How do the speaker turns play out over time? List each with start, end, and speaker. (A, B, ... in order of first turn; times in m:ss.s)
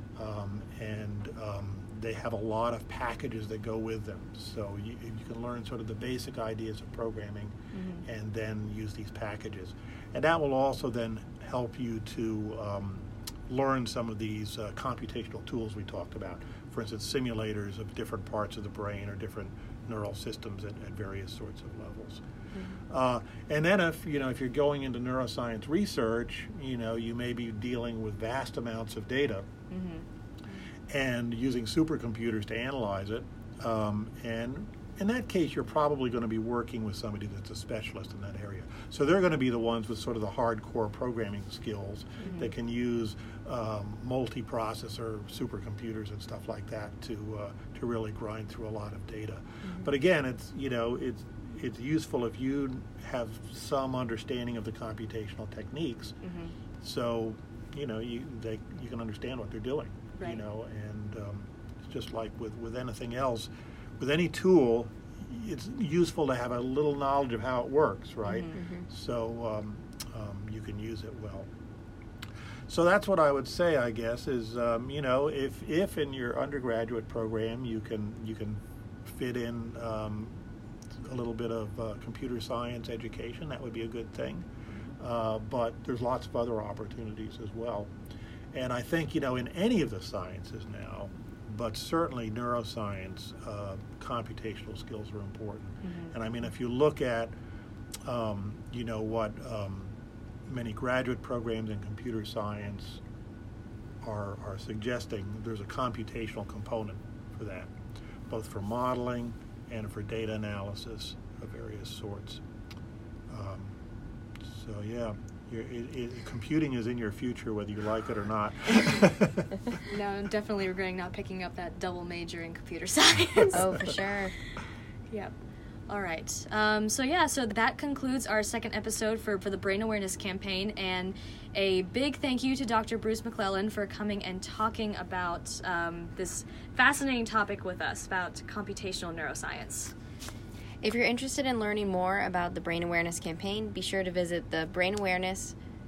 0:00.2-0:22.2 A
0:07.7-0:08.0 B
0:22.9-0:29.5 A
0:29.7-0:30.0 B
0:30.9-0:56.2 A
0:42.2-0:42.5 B
0:49.6-0:49.9 C
0:56.2-0:56.5 B
0:56.8-1:11.5 A
1:08.3-1:08.6 B
1:08.5-1:08.8 C
1:12.7-1:20.4 A
1:21.0-1:24.5 A
1:25.0-1:27.9 A
1:28.5-1:37.3 A
1:35.8-1:36.1 B
1:38.0-1:39.9 A
1:40.5-1:43.0 A
1:44.0-1:47.7 A
1:48.3-1:52.4 A
1:53.3-1:53.8 A
1:54.4-1:59.5 A
1:59.9-2:03.8 B
2:03.5-2:04.3 C
2:05.9-2:19.9 B
2:20.8-2:25.6 C